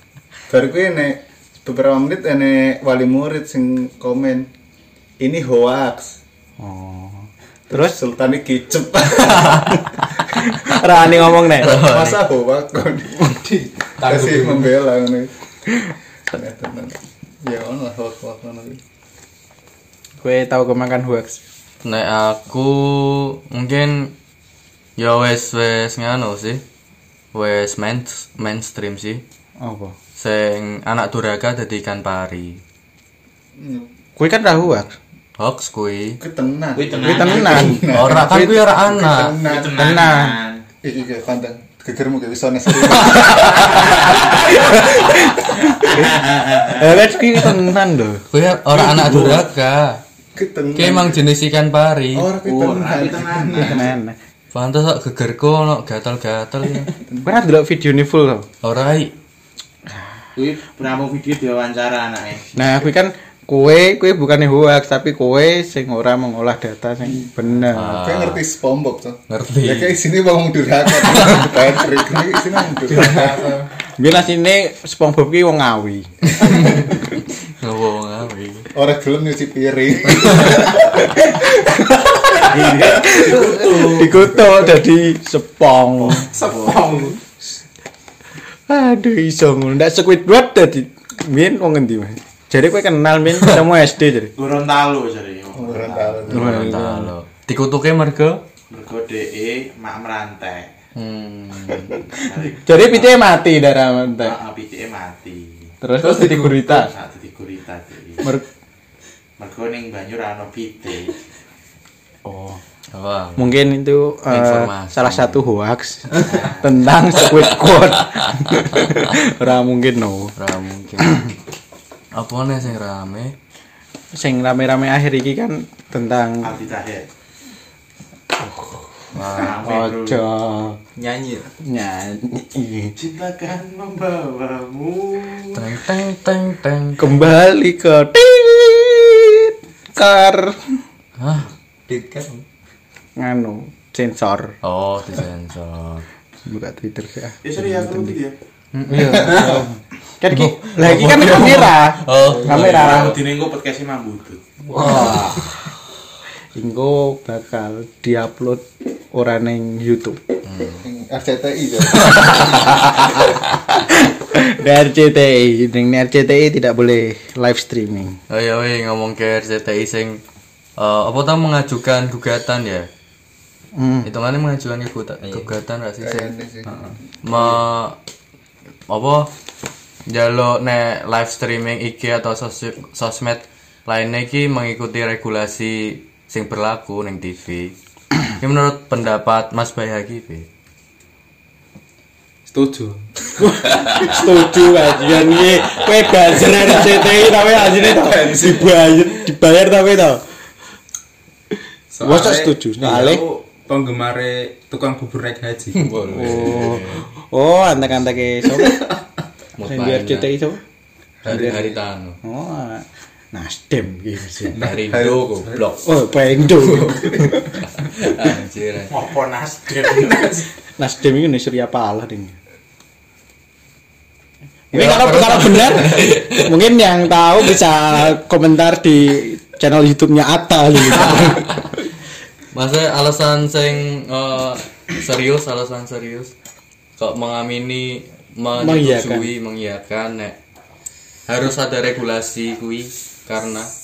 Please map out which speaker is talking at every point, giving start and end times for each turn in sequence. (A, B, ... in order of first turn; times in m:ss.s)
0:00.5-0:04.5 A
0:05.2-0:06.2 A
0:06.6-0:08.0 B
0:07.7-0:09.8 A
0:09.5-0:09.8 B
0:10.4-0:11.8 B
0:11.5-0:12.2 C
0:11.6-0:15.3 A
0:13.8-0:14.8 D
0:16.3-0:18.8 A
0:20.2-0:21.4 B
0:21.8-0:24.1 C
0:25.0-0:26.6 C
0:27.3-0:29.2 C
0:29.6-0:29.9 B
0:30.2-0:32.6 C
0:33.6-0:33.9 A
0:34.2-0:34.9 B
0:35.4-0:36.2 C
0:36.2-0:40.0 A
0:36.7-0:37.8 E
0:37.0-0:38.6 B
0:37.9-0:39.4 C
0:39.3-0:40.6 E
0:39.8-0:40.4 B
0:40.8-0:45.0 A
0:43.0-0:48.2 B
0:45.8-0:46.9 E
0:48.3-0:50.0 C
0:48.7-0:49.5 A
0:50.3-0:51.2 A
0:50.7-0:52.3 C
0:52.1-0:53.9 A
0:52.4-0:53.9 E
0:53.6-0:54.2 B
0:54.5-0:56.9 C
0:57.0-0:57.3 A
0:57.2-0:58.5 B
0:58.6-0:59.1 C
1:00.4-1:02.5 E
1:02.5-1:08.0 B
1:07.7-1:08.4 C
1:07.8-1:13.4 A
1:09.3-1:10.0 C
1:12.8-1:13.7 D
1:14.0-1:16.9 B
1:16.4-1:17.1 C
1:17.6-1:18.7 C
1:18.7-1:21.6 A
1:22.4-1:24.1 E
1:22.7-1:26.3 B
1:26.3-1:27.2 D
1:26.4-1:27.1 E
1:28.7-1:34.3 B
1:34.4-1:36.3 E
1:35.5-1:36.7 A
1:36.3-1:38.4 C
1:36.3-1:37.1 B
1:38.7-1:40.7 E
1:40.9-1:42.0 C
1:42.0-1:43.1 E
1:42.6-1:44.4 B
1:44.2-1:45.7 E
1:45.8-1:46.9 B
1:46.0-1:46.7 D
1:46.7-1:48.3 E
1:49.4-1:51.2 E
1:52.2-1:52.6 B
1:52.9-1:53.6 C
1:53.4-2:00.4 B
1:54.3-1:55.4 C
1:56.1-1:56.8 E
2:00.4-2:01.2 C
2:01.0-2:01.3 B
2:02.1-2:03.3 C
2:04.1-2:06.6 B
2:06.4-2:07.1 E
2:08.4-2:08.8 B
2:09.1-2:09.6 C
2:09.1-2:10.2 E
2:09.6-2:10.8 B
2:11.0-2:11.5 D
2:11.6-2:13.0 B
2:13.0-2:15.6 E
2:15.5-2:17.2 C
2:17.0-2:20.8 B
2:21.2-2:21.5 C
2:21.9-2:22.4 D
2:23.2-2:24.5 B
2:24.6-2:26.0 C
2:26.4-2:28.2 B
2:27.4-2:28.3 E
2:28.8-2:33.2 B
2:29.0-2:29.3 C
2:29.1-2:29.6 D
2:30.3-2:33.2 C
2:32.4-2:34.4 E
2:34.7-2:35.6 B
2:36.5-2:40.2 B
2:40.4-2:40.8 C
2:40.8-2:42.7 A
2:42.0-2:48.2 B
2:48.3-2:50.2 C
2:50.8-2:52.9 C
2:53.7-2:54.1 B
2:54.0-2:56.3 C
2:56.0-2:56.7 A
2:56.7-2:56.9 D
2:57.2-2:58.0 C
2:58.9-2:59.3 C
3:00.1-3:07.7 C
3:08.4-3:10.5 C
3:12.5-3:13.1 D
3:13.4-3:20.2 B
3:17.5-3:18.7 D
3:21.9-3:26.2 D
3:22.0-3:23.2 B
3:25.7-3:27.0 C
3:26.1-3:28.9 B
3:28.7-3:28.9 D
3:29.6-3:30.3 C
3:29.6-3:30.6 B
3:31.2-3:32.2 C
3:31.2-3:34.6 B
3:34.5-3:35.7 D
3:34.6-3:35.8 C
3:35.8-3:37.6 B
3:37.8-3:38.9 C
3:38.9-3:40.4 E
3:40.0-3:40.4 D
3:40.8-3:42.4 B
3:44.7-3:46.5 C
3:44.7-3:51.6 B
3:50.9-3:51.6 C
3:52.5-3:56.3 C
3:57.0-4:00.4 C
3:58.6-3:59.3 B
4:01.3-4:03.7 C